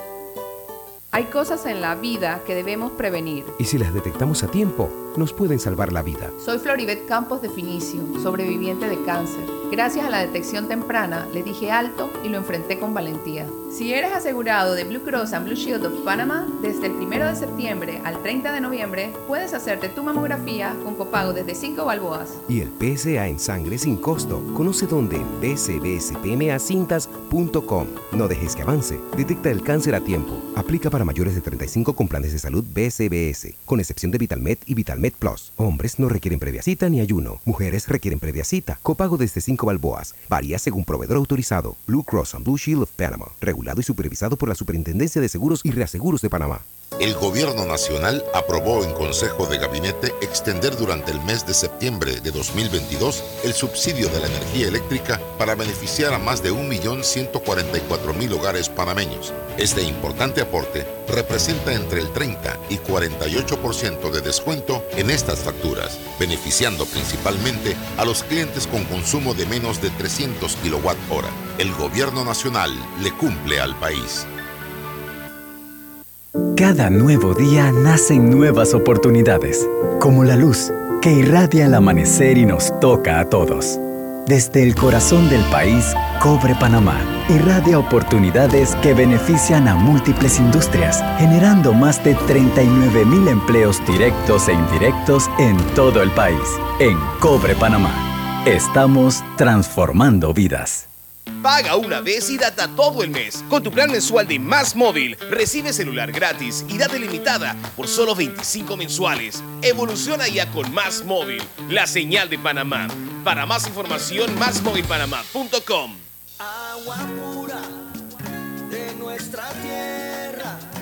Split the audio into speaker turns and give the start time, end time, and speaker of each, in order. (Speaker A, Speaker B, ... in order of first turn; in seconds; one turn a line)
Speaker A: 1.1-3.5
Speaker B: 3.6-6.3
Speaker A: 6.4-22.4
Speaker B: 22.5-46.6
Speaker C: 47.0-74.3
Speaker D: 76.5-100.9
Speaker E: 101.4-116.0
Speaker F: 116.4-117.7
Speaker F: 118.7-120.6